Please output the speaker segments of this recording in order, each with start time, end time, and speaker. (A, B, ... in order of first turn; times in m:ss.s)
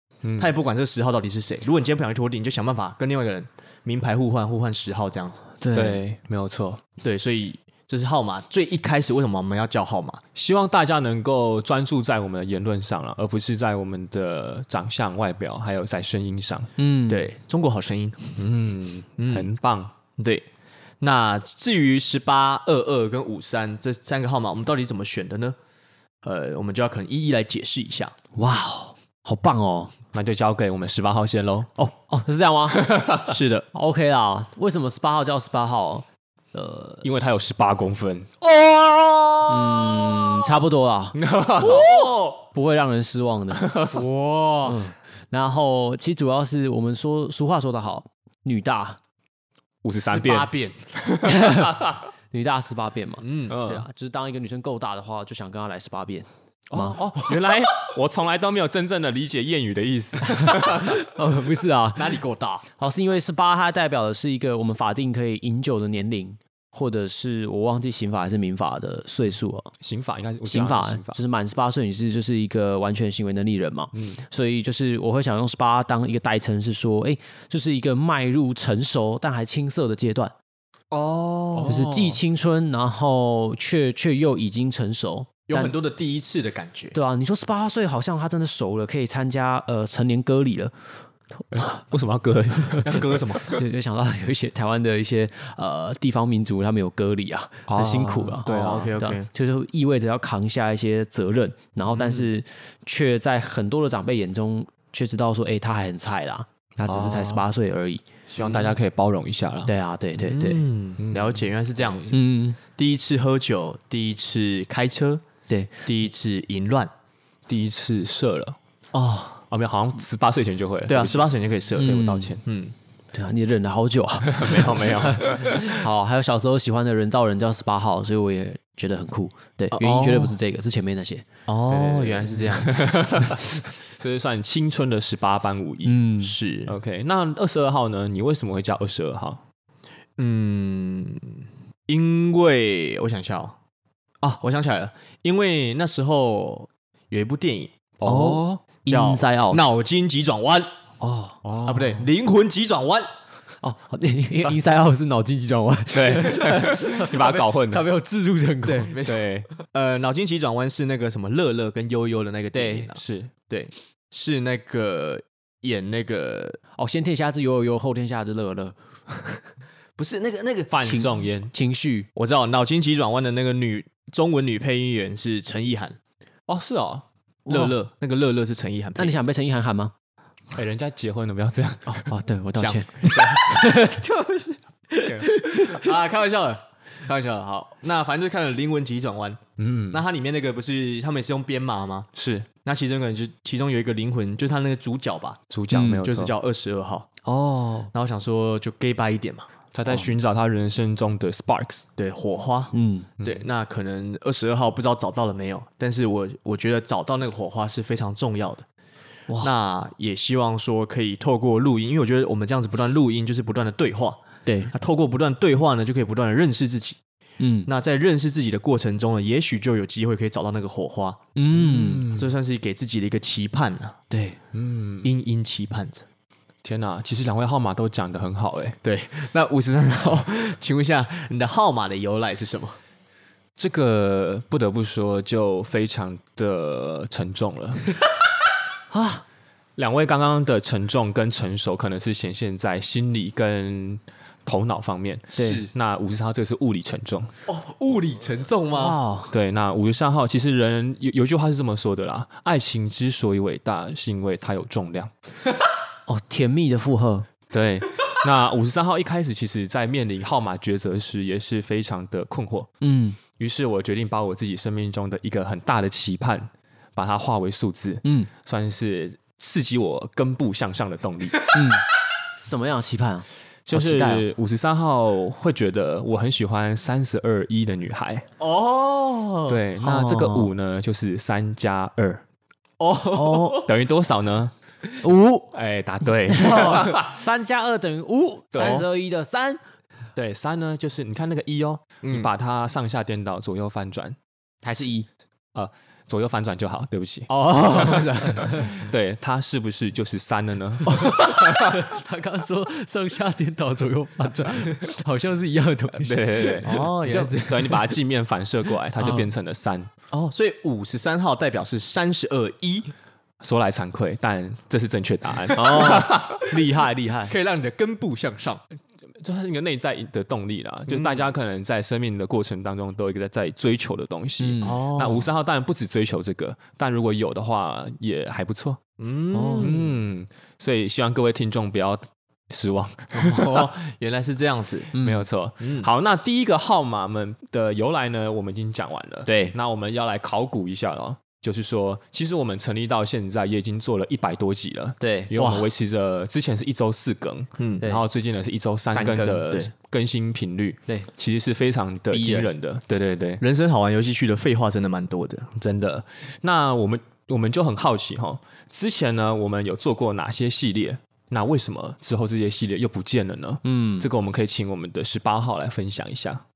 0:00.2-0:00.5 A
0:00.4-0:05.4 B
0:05.6-0:06.0 C
0:05.7-0:06.8 A
0:07.0-0:10.2 B
0:10.3-0:16.7 A
0:16.8-0:17.3 C
0:17.1-0:18.5 B
0:18.4-0:19.9 A
0:19.2-0:19.5 B
0:20.2-0:20.4 B
0:21.0-0:25.6 B
0:26.2-0:28.1 B
0:28.4-0:29.9 C
0:30.1-0:31.9 A
0:31.9-0:32.9 C
0:32.7-0:33.4 A
0:33.3-0:33.7 B
0:33.7-0:37.0 C
0:37.0-0:40.3 A
0:39.5-0:43.8 C
0:41.1-0:42.3 A
0:43.5-0:44.0 A
0:43.9-0:44.8 B
0:44.6-0:49.0 C
0:49.8-0:52.0 A
0:50.0-0:50.8 B
0:51.2-0:57.0 C
0:53.2-0:53.5 B
0:53.5-0:53.8 A
0:56.7-1:01.0 A
1:00.3-1:02.2 C
1:01.9-1:02.7 B
1:02.7-1:09.7 C
1:09.8-1:11.2 A
1:10.5-1:20.3 C
1:13.9-1:14.2 A
1:20.9-1:21.7 B
1:21.4-1:22.2 A
1:21.7-1:25.8 C
1:25.5-1:27.0 B
1:26.9-1:30.9 C
1:31.5-1:33.2 A
1:32.8-1:33.5 B
1:33.5-1:48.0 C
1:37.7-1:38.9 A
1:38.4-1:39.3 B
1:41.9-1:42.3 B
1:46.9-1:47.4 A
1:48.3-1:49.7 A
1:48.4-1:48.7 B
1:49.7-1:50.6 C
1:50.2-1:55.2 B
1:51.0-1:51.4 A
1:52.1-1:52.6 C
1:55.8-1:56.9 B
1:57.5-1:58.6 A
1:58.9-1:59.4 B
1:59.5-2:02.4 A
2:00.9-2:02.8 B
2:01.8-2:02.4 C
2:03.1-2:11.2 C
2:04.2-2:05.8 A
2:09.7-2:10.4 B
2:11.5-2:13.0 B
2:11.7-2:16.0 A
2:15.8-2:16.4 C
2:16.2-2:16.7 B
2:16.7-2:19.4 A
2:20.2-2:23.6 B
2:24.2-2:27.8 B
2:28.0-2:28.6 A
2:28.0-2:29.6 C
2:28.9-2:30.7 B
2:31.0-2:31.4 C
2:31.4-2:32.0 A
2:31.6-2:33.1 B
2:33.6-2:39.0 C
2:35.9-2:37.9 A
2:38.6-2:46.6 B
2:39.0-2:39.5 A
2:42.5-2:42.9 C
2:43.0-2:43.3 A
2:46.8-2:49.4 C
2:50.0-2:51.0 B
2:50.7-2:51.5 A
2:50.8-2:52.1 C
2:52.2-2:56.0 B
2:56.5-2:57.0 A
2:57.4-2:59.2 B
2:57.5-2:57.8 C
2:59.0-2:59.9 C
3:00.5-3:03.5 A
3:01.9-3:05.9 C
3:05.0-3:05.7 A
3:05.7-3:12.1 B
3:09.6-3:10.0 A
3:12.1-3:12.5 A
3:12.6-3:17.1 B
3:15.5-3:16.3 A
3:15.7-3:16.0 C
3:17.2-3:17.9 C
3:17.9-3:19.5 B
3:19.7-3:21.9 A
3:22.0-3:28.7 B
3:22.7-3:23.1 C
3:29.4-3:34.2 B
3:34.4-3:34.7 C
3:34.7-3:37.0 B
3:37.4-3:37.7 C
3:37.6-3:41.2 B
3:41.4-3:42.1 C
3:41.5-3:42.3 A
3:42.1-3:44.0 B
3:44.1-3:44.4 C
3:44.5-3:45.1 A
3:45.0-3:46.0 B
3:46.6-3:48.8 A
3:48.8-3:52.8 B
3:53.6-3:57.9 A
3:58.9-3:59.2 C
3:59.8-4:07.3 A
4:05.3-4:05.7 B
4:05.4-4:05.6 C
4:07.5-4:09.0 B
4:08.7-4:09.3 C
4:09.3-4:15.1 A
4:16.1-4:17.3 C
4:17.5-4:22.7 A
4:22.8-4:23.2 C
4:23.4-4:31.5 A
4:28.0-4:28.3 C
4:31.5-4:31.9 C
4:32.4-4:34.2 C
4:33.7-4:38.3 A
4:38.4-4:39.6 B
4:39.5-4:42.2 A
4:39.8-4:40.5 C
4:42.8-4:43.7 B
4:43.1-4:43.7 C
4:43.6-4:44.5 A
4:45.0-4:45.5 C
4:45.5-4:47.1 A
4:46.3-4:49.6 C
4:48.6-4:48.8 A
4:48.6-4:48.9 B
4:50.2-4:54.2 A
4:52.0-4:52.3 B
4:54.6-4:55.1 C
4:55.5-5:01.7 A
4:57.3-4:58.7 B
5:00.9-5:01.4 B
5:01.1-5:07.9 C
5:06.0-5:09.9 A
5:06.6-5:07.5 B
5:09.0-5:09.3 C
5:10.1-5:12.9 B
5:13.4-5:16.4 A
5:15.6-5:17.3 C
5:17.3-5:18.6 B
5:19.2-5:28.8 A
5:20.9-5:21.2 B
5:24.4-5:24.8 C
5:24.6-5:25.3 B
5:29.0-5:29.8 B
5:29.3-5:29.8 C
5:29.6-5:33.7 A
5:33.1-5:34.9 B
5:34.9-5:35.2 C
5:35.0-5:53.4 A
5:35.6-5:35.9 B
5:39.3-5:39.6 C
5:45.0-5:45.5 C
5:45.4-5:45.6 B
5:47.6-5:47.8 B
5:48.9-5:49.5 C
5:52.1-5:52.5 C
5:53.4-5:55.5 B
5:55.6-6:06.4 A
6:03.6-6:04.1 C